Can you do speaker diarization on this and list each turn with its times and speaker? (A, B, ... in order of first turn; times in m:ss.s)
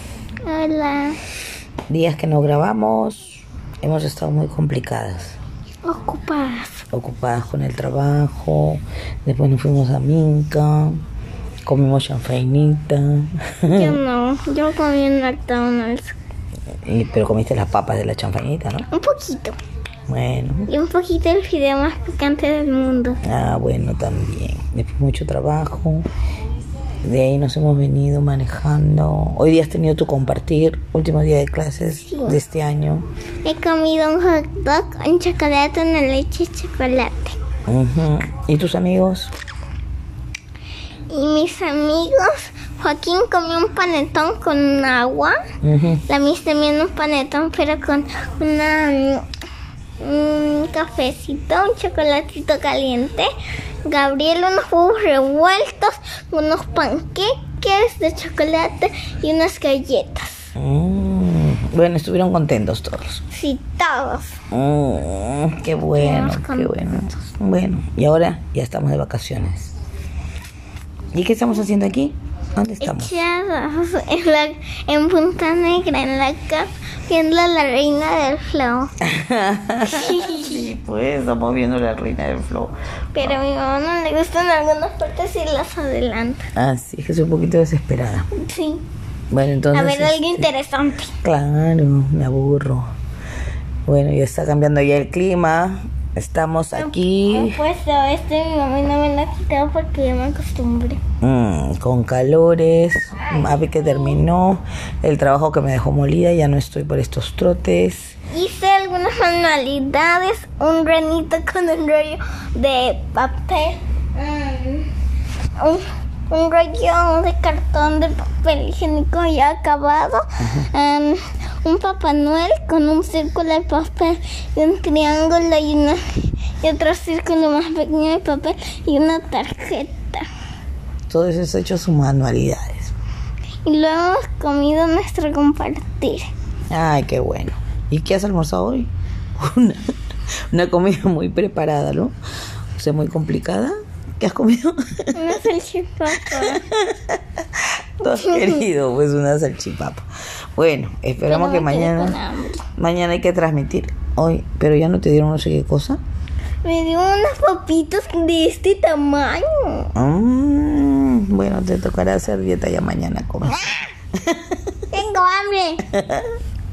0:00.5-0:01.2 A
0:01.9-0:05.4 B
0:05.8-0:06.8 A
0:06.9-0:11.0 B
0:11.7-0:14.0 B
0:13.7-0:16.2 A
0:16.8-0:18.9 B
0:18.9-0:19.6 A
0:20.1-0:20.7 B
0:20.7-0:23.2 A
0:23.2-0:26.1 B
0:27.0-0:33.0 B
0:33.4-0:37.4 A
0:37.7-0:39.3 B
0:41.1-0:45.4 A
0:45.6-0:46.0 B
0:46.1-0:49.2 A
0:50.0-0:53.3 A
0:53.9-1:00.5 A
1:00.6-1:03.2 B
1:03.3-1:04.4 A
1:04.5-1:09.7 B
1:05.9-1:06.7 A
1:11.1-1:13.1 B
1:12.8-1:18.9 A
1:19.0-1:23.3 B
1:19.8-1:20.6 A
1:23.1-1:26.5 A
1:26.6-1:28.3 B
1:28.3-1:28.8 A
1:29.3-1:30.5 B
1:29.7-1:31.2 A
1:31.2-1:32.9 B
1:33.8-1:37.6 B
1:36.7-1:41.0 A
1:41.2-1:48.2 B
1:43.3-1:44.2 A
1:48.3-1:54.9 A
1:55.6-2:10.2 A
2:11.1-2:12.9 B
2:13.7-2:16.3 A
2:16.7-2:19.8 B
2:20.5-2:22.1 B
2:22.8-2:25.3 B
2:25.1-2:26.6 A
2:26.3-2:32.2 B
2:28.2-2:28.6 A
2:31.3-2:32.6 A
2:32.8-2:36.0 B
2:36.6-2:39.9 A
2:39.9-2:44.6 B
2:44.9-2:45.8 A
2:45.9-2:46.2 B